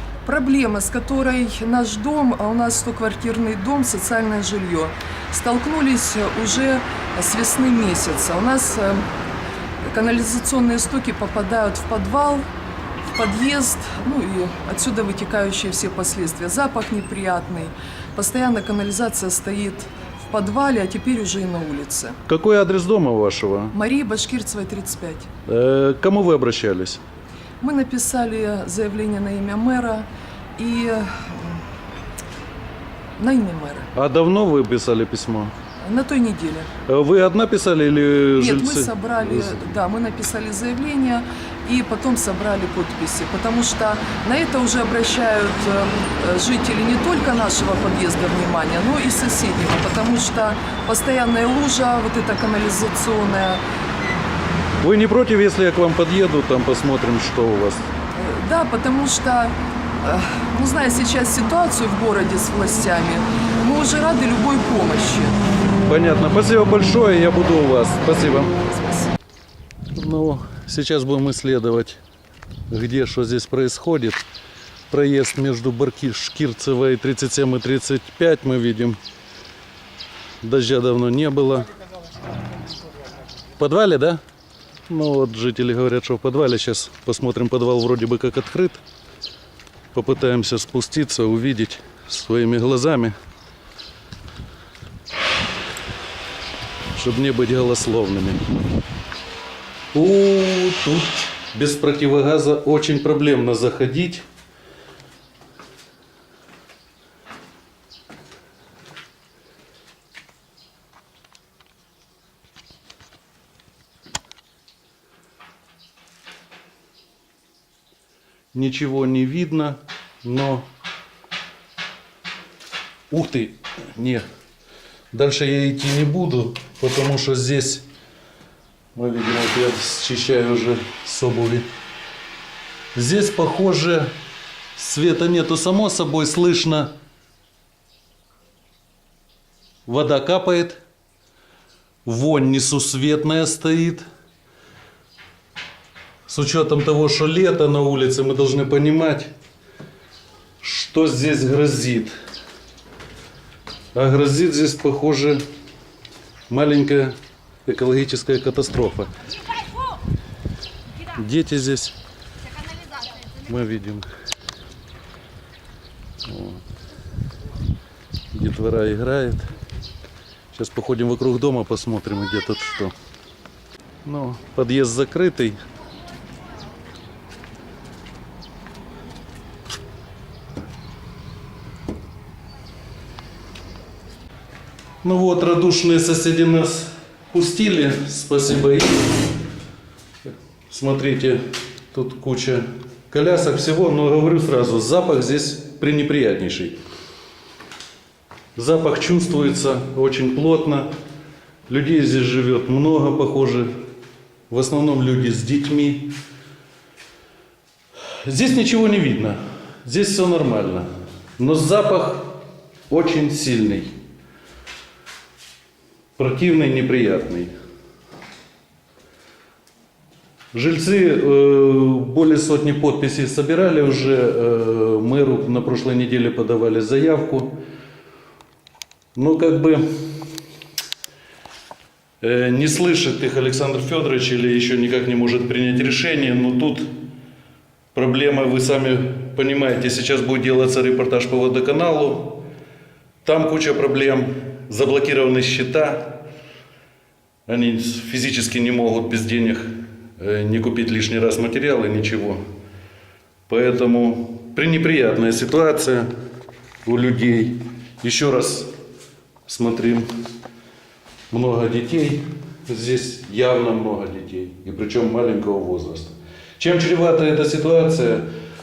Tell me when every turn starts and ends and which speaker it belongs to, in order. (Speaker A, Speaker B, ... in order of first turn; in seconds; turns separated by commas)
Speaker A: 0.2-9.1, Speaker A: 9.8-12.5, Speaker A: 13.1-22.2, Speaker B: 22.3-23.7, Speaker A: 23.7-25.3, Speaker B: 25.4-27.0, Speaker A: 27.6-31.6, Speaker A: 33.2-33.9, Speaker B: 33.9-35.5, Speaker A: 35.8-36.7, Speaker B: 36.9-39.6, Speaker A: 38.4-53.6, Speaker B: 54.8-57.8, Speaker A: 58.1-65.4, Speaker B: 65.8-68.6, Speaker A: 68.7-69.1, Speaker B: 69.9-72.0, Speaker B: 72.7-74.2, Speaker B: 74.9-79.0, Speaker B: 80.4-81.7, Speaker B: 83.6-84.2, Speaker B: 84.9-88.8, Speaker B: 89.9-93.1, Speaker B: 96.9-98.4, Speaker B: 99.9-104.2, Speaker B: 118.5-120.7, Speaker B: 123.1-124.2, Speaker B: 125.1-127.9, Speaker B: 128.9-131.7, Speaker B: 132.9-134.1, Speaker B: 134.7-136.9, Speaker B: 139.8-140.8, Speaker B: 142.0-144.0, Speaker B: 146.3-149.3, Speaker B: 150.6-152.1, Speaker B: 153.9-155.4, Speaker B: 156.5-159.1, Speaker B: 161.1-161.9, Speaker B: 163.3-164.1, Speaker B: 166.2-166.6, Speaker B: 168.3-169.5, Speaker B: 170.5-172.9, Speaker B: 174.0-175.6, Speaker B: 185.0-189.2, Speaker B: 190.2-196.8, Speaker B: 198.6-200.9, Speaker B: 201.7-203.7, Speaker B: 204.5-206.1, Speaker B: 208.2-212.3, Speaker B: 212.9-213.9, Speaker B: 216.2-217.5, Speaker B: 220.5-227.6, Speaker B: 229.1-230.2, Speaker B: 232.2-236.9, Speaker B: 237.9-242.4, Speaker B: 243.2-246.2, Speaker B: 247.5-252.4, Speaker B: 253.5-256.1, Speaker B: 256.8-258.7, Speaker B: 259.5-260.1, Speaker B: 261.3-268.3